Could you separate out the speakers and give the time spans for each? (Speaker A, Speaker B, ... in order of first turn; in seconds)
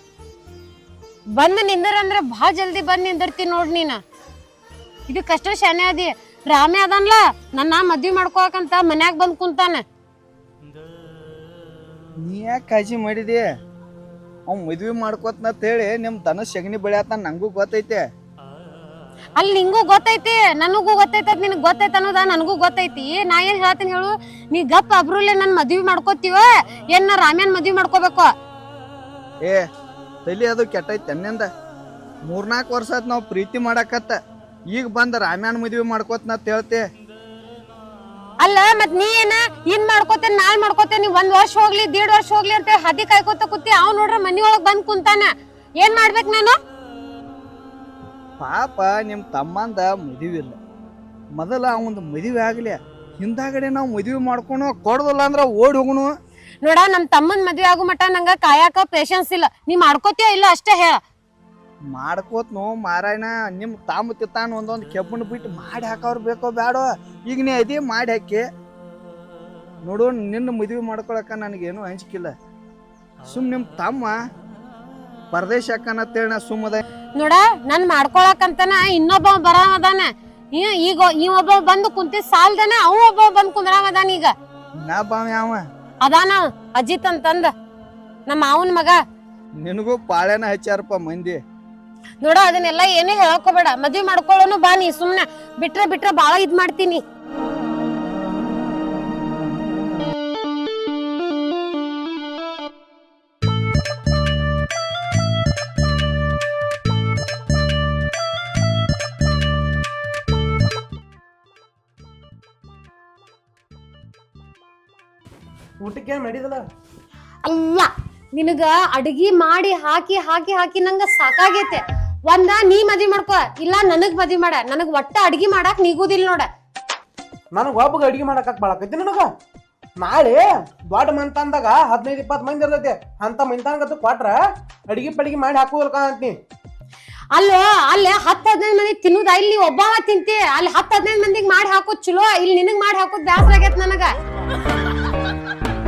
Speaker A: 1.4-4.0, 5.1-9.8, 19.4-28.3, 38.4-45.3, 45.8-46.6, 56.6-61.0, 77.2-84.3, 86.0-87.5, 88.3-89.0, 92.2-97.0, 117.4-126.5, 137.3-144.1
Speaker B: 12.2-13.4, 14.5-18.0, 30.2-31.5, 32.3-34.2, 34.7-36.9, 48.4-50.6, 51.4-56.1, 61.9-68.4, 69.8-72.3, 73.3-74.2, 75.3-76.8, 84.8-85.6, 89.6-91.4
Speaker C: 115.8-116.6, 127.5-129.3, 130.0-136.3